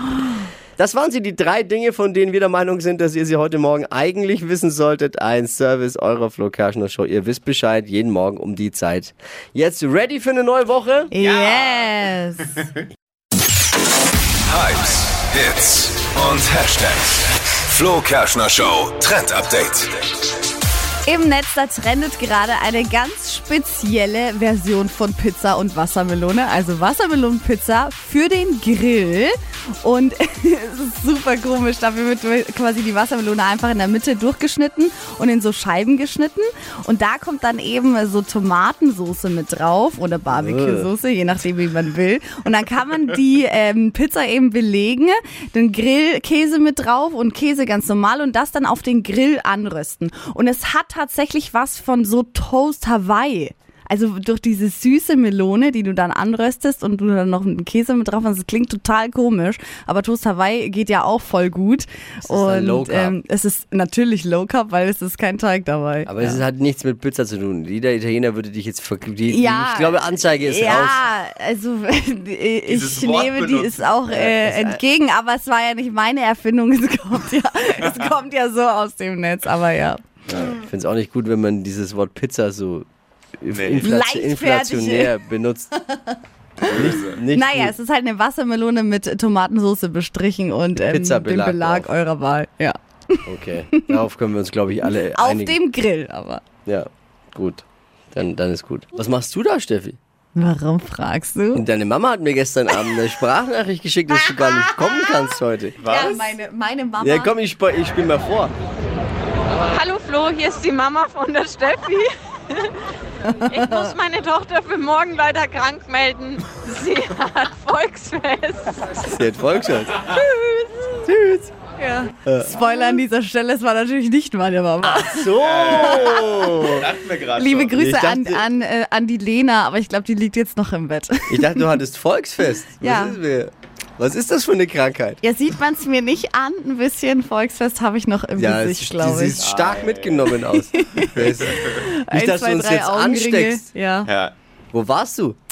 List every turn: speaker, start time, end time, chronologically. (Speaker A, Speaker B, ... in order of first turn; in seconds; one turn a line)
Speaker A: 0.8-11.1
Speaker B: 11.1-12.7
Speaker C: 11.2-11.9
Speaker D: 14.4-20.0
Speaker B: 21.0-66.4
Speaker A: 40.3-40.9
Speaker A: 62.2-63.2
Speaker A: 66.1-71.0
Speaker B: 69.3-80.0
Speaker C: 72.7-73.9
Speaker A: 74.1-74.8
Speaker A: 80.3-82.9
Speaker A: 83.4-85.7
Speaker C: 83.5-83.8
Speaker B: 83.8-85.2
Speaker B: 85.8-86.1
Speaker B: 86.6-93.2
Speaker C: 86.7-87.2
Speaker A: 86.7-87.8
Speaker A: 90.8-91.9
Speaker A: 93.2-95.6
Speaker B: 95.1-96.4
Speaker A: 96.7-100.0
Speaker B: 100.3-101.6
Speaker A: 101.5-106.2
Speaker B: 102.7-103.0
Speaker B: 104.1-107.3
Speaker C: 105.9-106.2
Speaker A: 107.0-108.5
Speaker E: 109.7-112.1
Speaker B: 113.2-113.9
Speaker E: 113.7-118.8
Speaker A: 119.0-120.0
Speaker B: 120.0-121.0
Speaker A: 121.0-121.5
Speaker B: 121.8-126.7
Speaker A: 122.2-123.0
Speaker A: 124.8-126.9
Speaker C: 126.8-127.7
Speaker B: 127.3-131.7
Speaker A: 127.7-128.4
Speaker A: 131.3-135.2
Speaker B: 132.8-133.2
Speaker B: 135.2-139.4
Speaker A: 138.4-143.7
Speaker C: 139.4-140.2
Speaker B: 140.5-144.1
Speaker C: 144.0-144.3
Speaker A: 144.7-145.4